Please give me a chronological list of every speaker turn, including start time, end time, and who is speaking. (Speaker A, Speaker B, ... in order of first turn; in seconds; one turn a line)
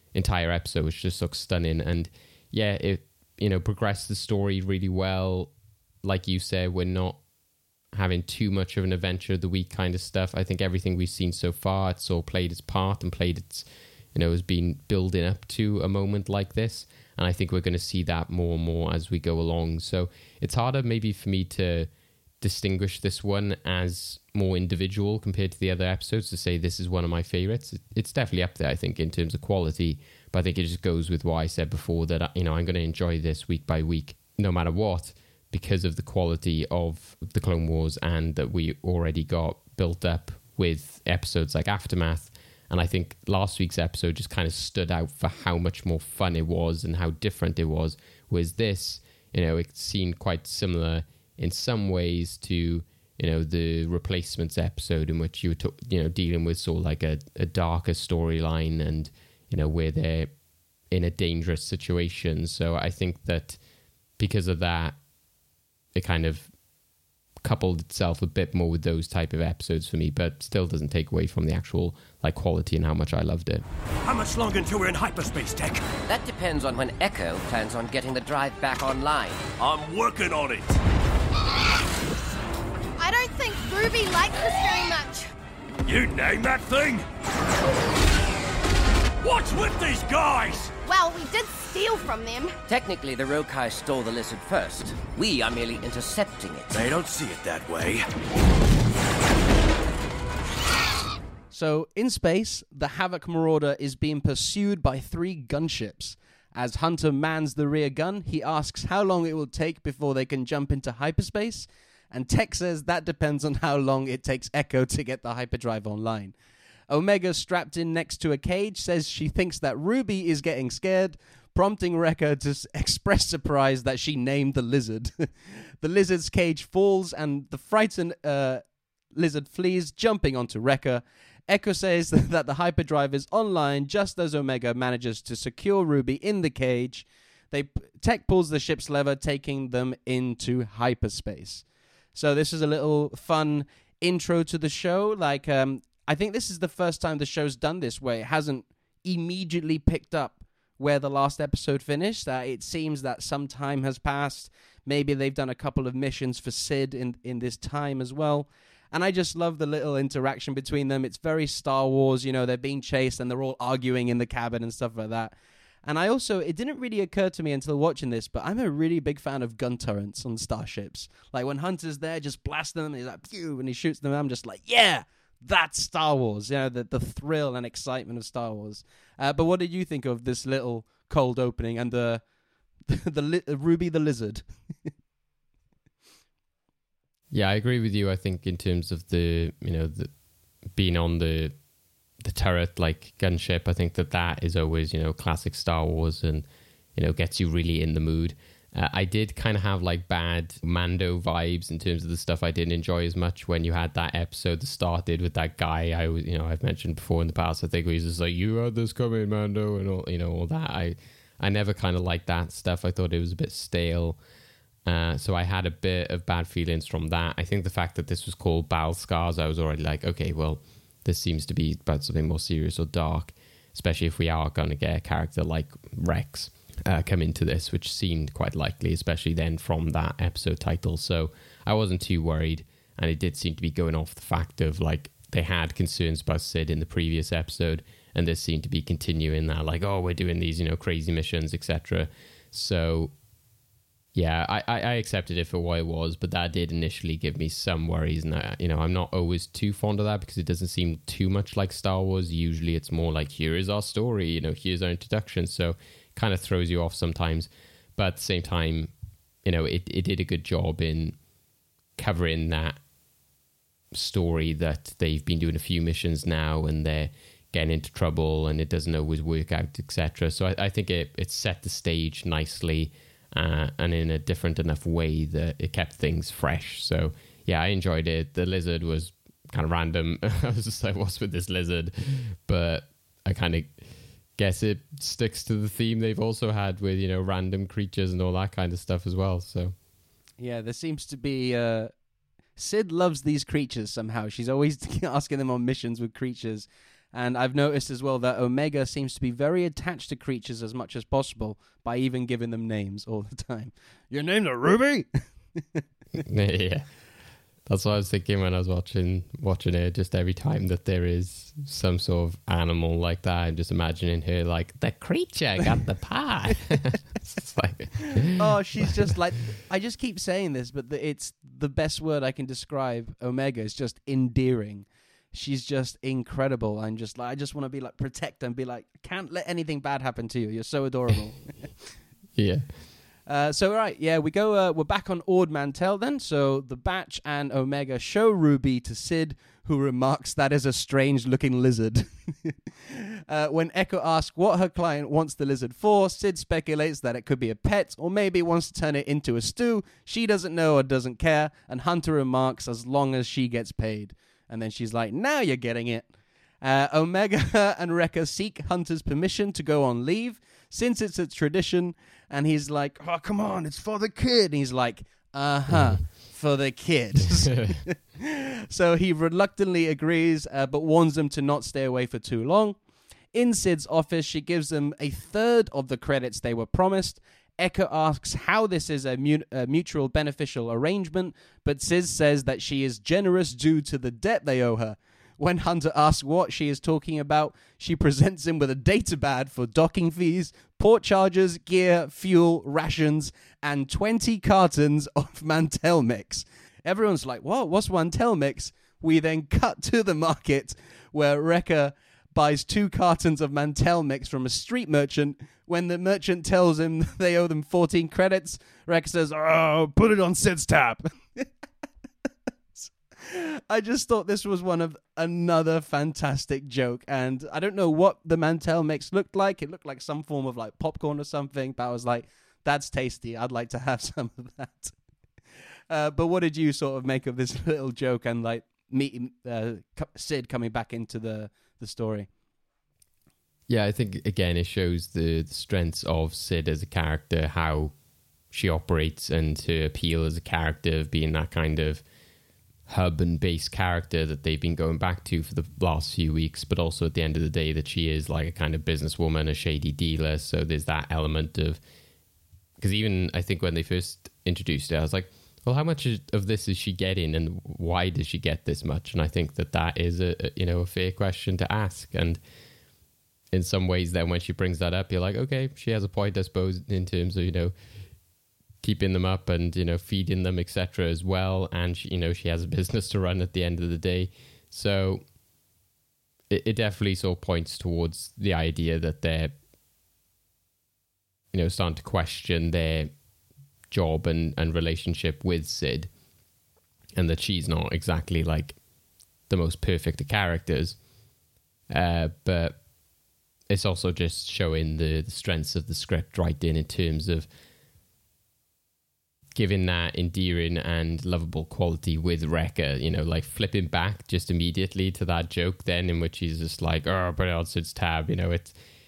Speaker A: 0.1-7.2
Speaker A: 7.9-21.9
Speaker A: 22.4-60.3
Speaker A: 60.9-63.6
Speaker A: 64.2-65.0
Speaker A: 66.0-66.5
Speaker A: 67.4-73.6
Speaker B: 74.0-75.9
Speaker C: 76.1-79.5
Speaker B: 79.6-80.8
Speaker D: 83.0-85.3
Speaker B: 85.8-87.1
Speaker B: 89.2-90.7
Speaker D: 90.8-92.5
Speaker C: 92.7-96.9
Speaker B: 96.7-98.1
Speaker E: 101.5-116.3
Speaker E: 116.9-182.2
Speaker E: 182.9-184.4
Speaker A: 187.3-190.1
Speaker A: 190.7-191.5
Speaker A: 192.2-214.2
Speaker A: 214.9-243.1
Speaker A: 244.2-258.9
Speaker A: 259.4-261.2
Speaker A: 262.0-262.8
Speaker A: 263.9-283.8
Speaker A: 284.4-289.8
Speaker E: 290.4-291.9
Speaker E: 292.6-305.8
Speaker A: 306.2-306.9
Speaker A: 307.7-319.1
Speaker E: 318.2-331.7
Speaker A: 332.4-332.7
Speaker E: 333.3-372.8
Speaker A: 367.4-367.8
Speaker E: 373.3-411.5
Speaker E: 412.8-424.9
Speaker E: 425.9-432.3
Speaker A: 433.7-437.9
Speaker A: 438.5-442.0
Speaker A: 442.9-451.8
Speaker A: 452.8-462.4
Speaker A: 463.5-467.7
Speaker A: 468.8-475.2
Speaker A: 476.5-479.5
Speaker A: 481.5-483.1
Speaker A: 483.9-486.1
Speaker A: 487.2-488.8
Speaker A: 489.5-491.0
Speaker A: 491.9-492.8
Speaker A: 493.7-497.5
Speaker A: 499.6-508.8